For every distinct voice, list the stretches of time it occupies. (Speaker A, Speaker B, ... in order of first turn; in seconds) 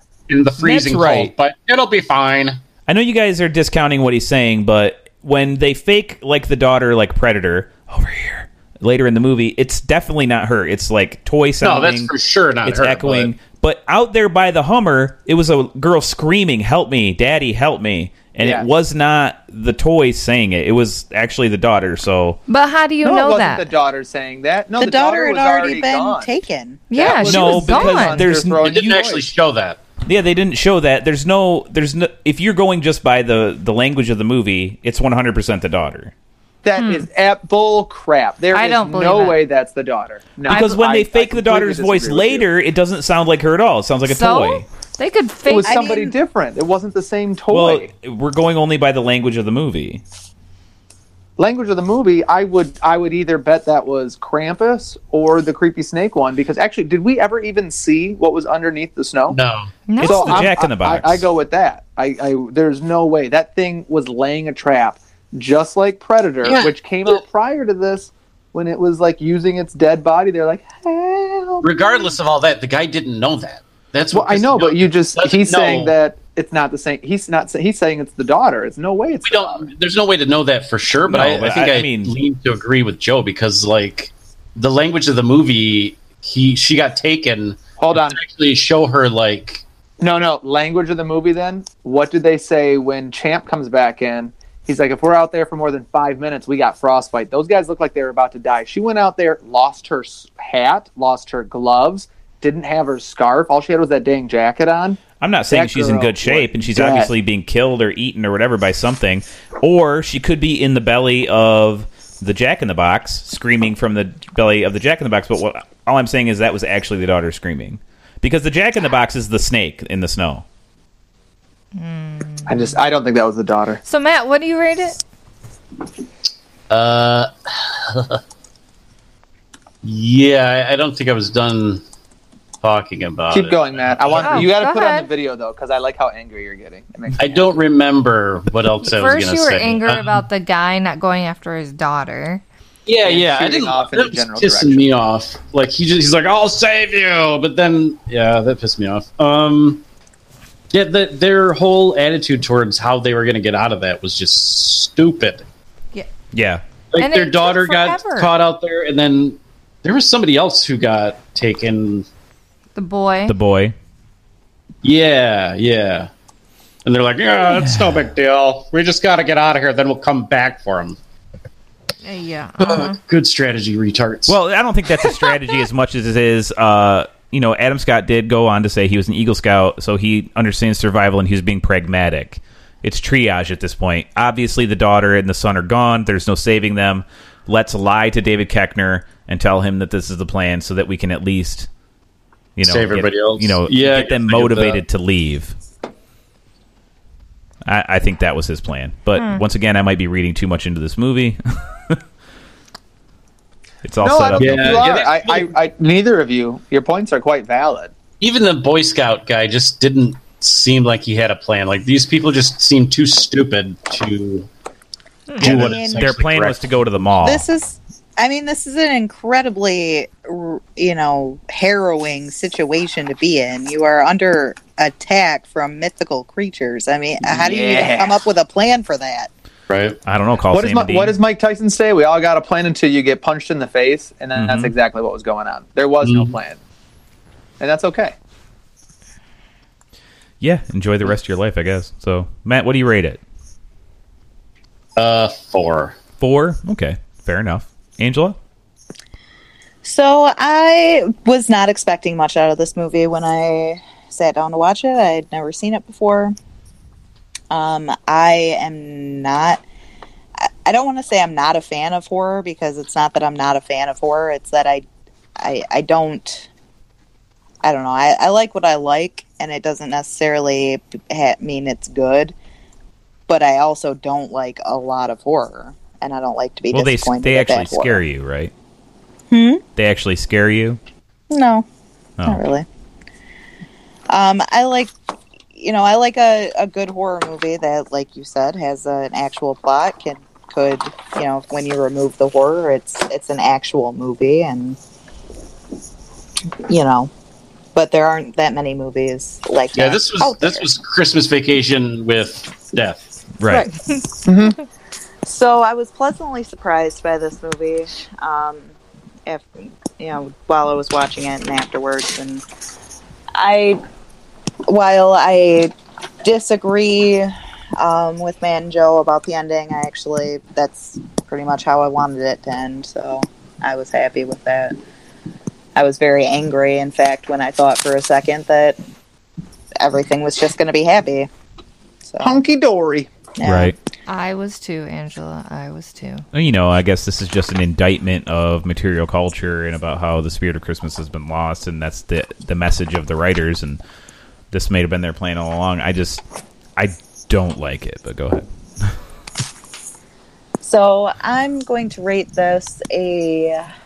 Speaker A: 0.3-2.6, 11.6-13.3, 28.6-29.8, 59.3-59.7, 66.4-67.2, 71.6-76.0, 79.2-89.6, 126.7-128.2, 129.8-131.8, 132.6-134.5, 137.2-140.2, 142.8-149.8, 150.7-155.4, 156.9-162.1, 164.8-166.1, 166.8-171.0, 172.6-174.3, 192.6-194.8, 204.4-205.5, 208.2-214.5, 215.4-216.6, 229.7-230.0, 236.0-236.3, 244.9-245.9, 299.7-303.1
Speaker B: 0.6-1.3, 2.9-12.1, 12.6-22.4, 27.2-29.0, 30.1-36.1, 40.5-44.6, 47.5-50.0, 60.0-61.2, 81.1-82.1, 105.2-120.4, 156.3-156.6, 163.3-163.7, 174.3-191.7, 192.6-195.5, 197.6-201.4, 203.8-204.9, 215.4-217.4, 230.0-231.2, 234.3-234.7, 240.4-243.2, 246.2-248.4, 276.7-278.5, 279.8-280.8, 303.4-303.7, 333.4-333.7, 336.3-343.8, 344.5-346.2, 346.8-348.9
Speaker C: 18.4-18.7, 23.0-26.3, 26.9-29.3, 36.6-42.5, 45.5-47.9, 51.4-59.4, 60.0-72.1, 74.1-79.7, 87.8-88.2, 90.0-107.1, 122.5-123.8, 133.3-137.5, 143.0-144.9, 204.0-207.9, 227.2-228.2, 230.5-236.6, 237.6-238.1, 304.2-304.6, 332.2-333.1
Speaker D: 22.5-23.7, 26.9-28.3, 36.8-37.1, 38.5-39.4, 40.5-40.8, 44.0-45.8, 59.9-60.5, 121.7-122.8, 123.8-125.0, 134.2-135.1, 138.8-142.4, 157.0-158.3, 162.7-163.3, 172.0-173.0, 199.2-199.4, 334.1-336.2
Speaker E: 24.8-26.8, 45.6-46.1, 215.4-216.1, 217.2-229.3, 249.8-256.3, 257.5-259.6, 260.4-264.8, 265.4-266.5, 267.6-272.3, 273.3-278.0, 279.3-279.6, 281.3-281.6, 282.2-282.6, 284.1-284.9, 285.5-294.8, 296.7-297.1, 297.7-300.6, 305.2-308.7, 309.2-312.4, 313.3-313.8, 314.6-324.8, 325.7-328.8, 329.8-331.3, 332.0-332.4, 333.4-333.8, 350.6-353.7